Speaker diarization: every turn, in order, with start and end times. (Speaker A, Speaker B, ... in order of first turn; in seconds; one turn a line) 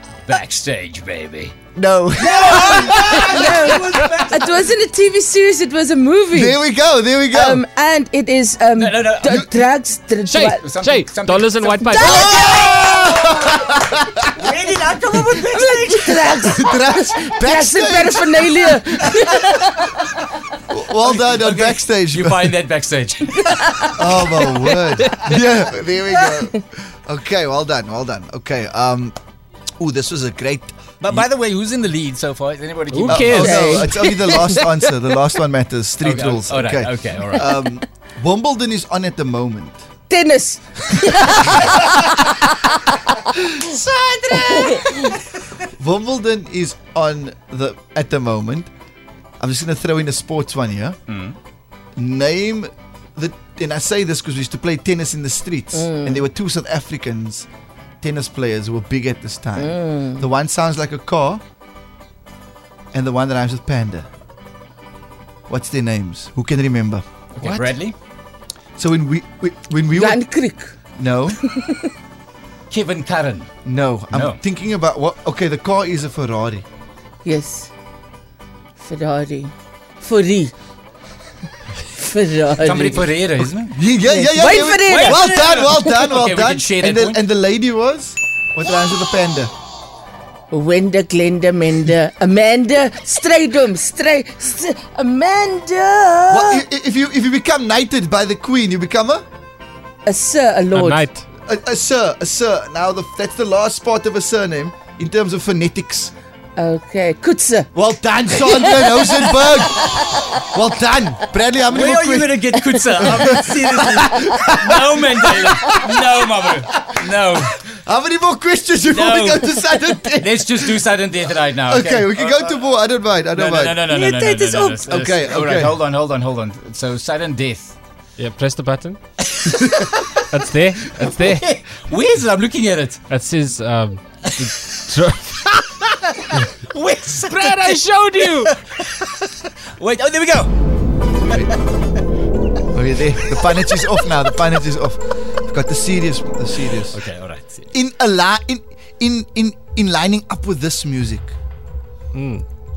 Speaker A: 0.3-1.5
Speaker B: 1.7-3.6
Speaker A: 2.1-4.7
Speaker C: 2.5-6.6
Speaker B: 6.3-7.6
Speaker C: 7.3-10.7
Speaker A: 8.8-9.3
Speaker B: 9.2-9.5
Speaker D: 10.3-12.5
Speaker A: 10.6-13.6
Speaker C: 11.9-12.8
Speaker B: 11.9-14.3
Speaker A: 14.3-16.5
Speaker C: 15.5-19.9
Speaker B: 16.2-18.8
Speaker B: 20.7-22.6
Speaker A: 21.0-24.3
Speaker B: 23.9-29.2
Speaker D: 24.8-25.2
Speaker B: 29.8-31.2
Speaker A: 31.0-33.4
Speaker D: 32.9-33.9
Speaker B: 33.0-39.8
Speaker C: 33.3-34.6
Speaker A: 36.0-37.6
Speaker C: 40.1-43.1
Speaker A: 41.5-41.9
Speaker A: 43.5-45.2
Speaker B: 45.8-48.7
Speaker B: 49.4-51.0
Speaker A: 51.1-51.4
Speaker B: 52.0-57.5
Speaker C: 55.7-56.2
Speaker B: 58.0-61.4
Speaker C: 59.5-60.2
Speaker B: 62.9-64.1
Speaker B: 65.5-67.7
Speaker A: 67.3-67.9
Speaker B: 68.8-70.3
Speaker C: 69.9-70.7
Speaker B: 71.0-71.4
Speaker C: 71.4-71.9
Speaker A: 72.7-73.5
Speaker B: 73.6-76.6
Speaker A: 74.1-74.4
Speaker C: 77.2-77.7
Speaker C: 78.8-80.5
Speaker C: 81.9-83.1
Speaker A: 82.6-83.8
Speaker B: 83.6-89.5
Speaker C: 84.0-86.1
Speaker A: 84.9-87.2
Speaker C: 90.5-96.6
Speaker B: 96.3-99.2
Speaker C: 100.0-101.0
Speaker D: 100.7-101.2
Speaker B: 101.4-106.1
Speaker C: 106.5-107.7
Speaker B: 107.7-115.7
Speaker C: 108.2-110.3
Speaker A: 111.7-117.6
Speaker B: 117.7-120.8
Speaker A: 118.9-119.7
Speaker A: 120.2-122.7
Speaker B: 121.7-123.8
Speaker A: 123.3-127.7
Speaker C: 123.9-124.8
Speaker B: 124.8-125.8
Speaker D: 128.2-129.0
Speaker A: 129.2-130.2
Speaker D: 130.3-131.4
Speaker A: 130.9-133.0
Speaker D: 133.1-135.5
Speaker A: 134.2-134.8
Speaker A: 135.9-140.5
Speaker D: 137.2-138.5
Speaker B: 142.7-147.0
Speaker A: 146.8-147.6
Speaker B: 147.7-151.3
Speaker D: 152.1-152.4